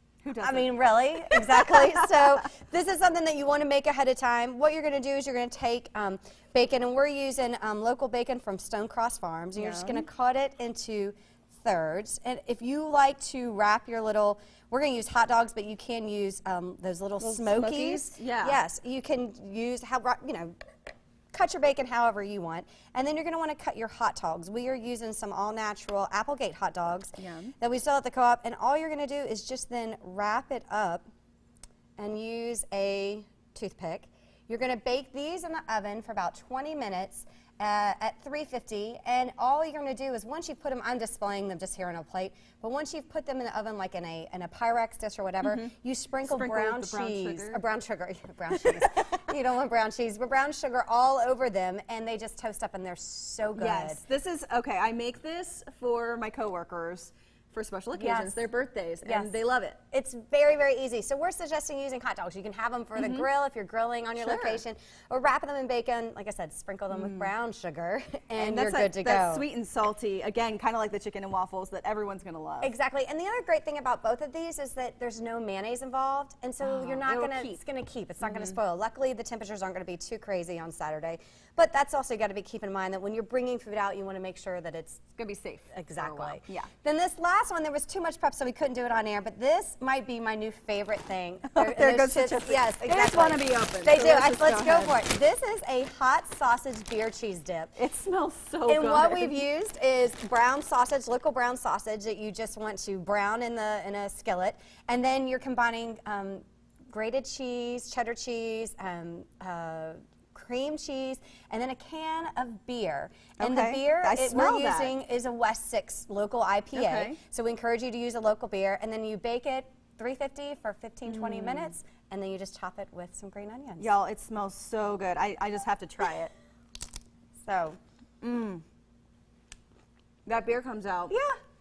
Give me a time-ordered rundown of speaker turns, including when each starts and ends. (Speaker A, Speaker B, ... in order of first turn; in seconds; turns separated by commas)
Speaker A: 0.2-1.9, Speaker B: 0.4-20.6, Speaker A: 9.6-10.1, Speaker A: 17.2-18.6, Speaker B: 21.3-31.1, Speaker A: 27.2-27.5, Speaker B: 32.0-54.0, Speaker A: 45.4-45.7, Speaker A: 46.2-47.6, Speaker A: 53.6-59.8, Speaker B: 58.0-58.5, Speaker B: 59.0-59.4, Speaker B: 59.9-69.5, Speaker A: 63.0-63.3, Speaker A: 64.2-64.6, Speaker A: 66.9-67.3, Speaker A: 68.4-72.7, Speaker B: 72.6-85.1, Speaker A: 76.6-77.6, Speaker A: 78.2-78.6, Speaker A: 85.2-86.7, Speaker B: 85.7-97.7, Speaker A: 91.5-95.0, Speaker A: 97.8-99.4, Speaker B: 98.7-123.9, Speaker A: 113.4-115.0, Speaker A: 116.7-117.2, Speaker A: 121.1-121.7, Speaker A: 123.8-126.3, Speaker B: 127.4-127.8, Speaker A: 128.2-128.6, Speaker A: 130.3-131.2